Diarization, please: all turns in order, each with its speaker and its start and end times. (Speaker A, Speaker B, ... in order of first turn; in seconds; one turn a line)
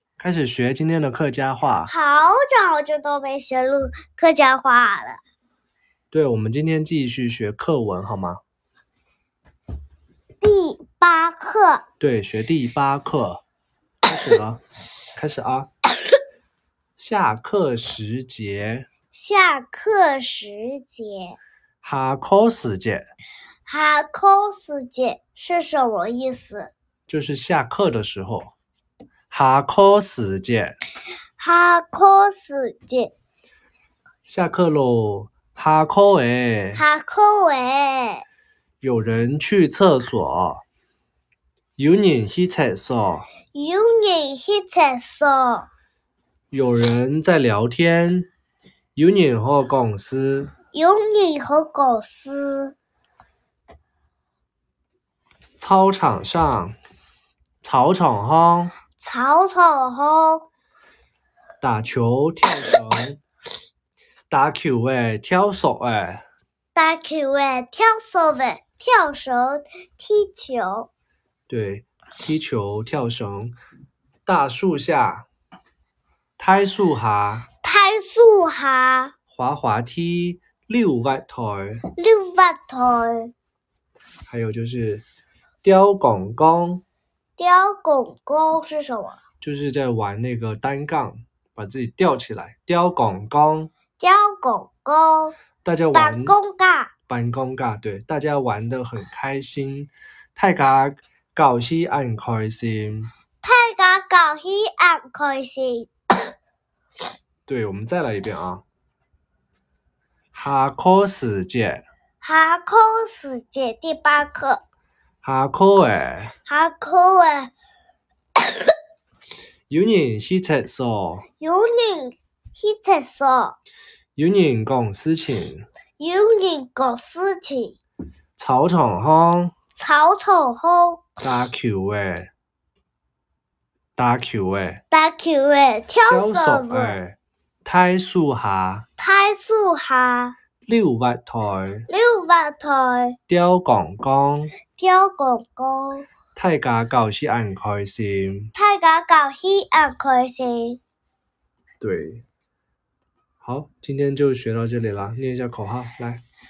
Speaker A: 0.2-1.9
Speaker B: 1.9-5.2
Speaker A: 6.1-8.4
Speaker B: 10.4-11.8
Speaker A: 12.0-13.4
Speaker A: 14.0-14.6
Speaker A: 15.2-15.7
Speaker A: 17.0-18.9
Speaker B: 19.1-21.4
Speaker A: 21.8-23.1
Speaker B: 23.7-26.7
Speaker A: 27.1-28.5
Speaker A: 29.3-30.8
Speaker B: 31.4-33.1
Speaker A: 34.3-36.8
Speaker B: 36.7-38.2
Speaker A: 38.8-40.6
Speaker A: 41.8-43.3
Speaker B: 43.5-45.7
Speaker A: 46.5-48.3
Speaker A: 49.0-50.6
Speaker B: 50.7-52.8
Speaker A: 55.6-56.8
Speaker A: 57.6-58.7
Speaker B: 59.0-60.5
Speaker A: 61.6-63.2
Speaker A: 64.3-66.2
Speaker B: 66.8-70.9
Speaker A: 71.5-73.5
Speaker A: 74.3-75.3
Speaker A: 76.4-77.5
Speaker B: 77.5-79.2
Speaker A: 79.3-81.8
Speaker B: 81.8-83.3
Speaker A: 84.3-85.0
Speaker A: 85.6-86.8
Speaker B: 87.4-89.2
Speaker A: 89.4-93.7
Speaker B: 94.0-95.4
Speaker A: 95.6-96.4
Speaker B: 95.9-97.0
Speaker A: 97.0-103.1
Speaker B: 103.4-105.9
Speaker A: 107.5-108.6
Speaker A: 110.3-111.8
Speaker B: 112.2-114.6
Speaker A: 115.2-116.4
Speaker B: 116.5-117.5
Speaker B: 118.4-118.7
Speaker A: 119.7-121.3
Speaker B: 121.3-123.6
Speaker A: 124.2-125.7
Speaker B: 126.0-127.8
Speaker A: 128.4-129.6
Speaker B: 129.8-131.2
Speaker A: 131.2-132.3
Speaker A: 134.0-134.8
Speaker B: 134.9-137.0
Speaker A: 136.1-138.9
Speaker B: 139.0-140.3
Speaker A: 140.6-141.9
Speaker B: 141.9-143.2
Speaker A: 143.3-144.6
Speaker B: 144.7-146.1
Speaker A: 146.3-148.5
Speaker B: 148.6-150.8
Speaker A: 151.8-152.2
Speaker A: 153.4-156.2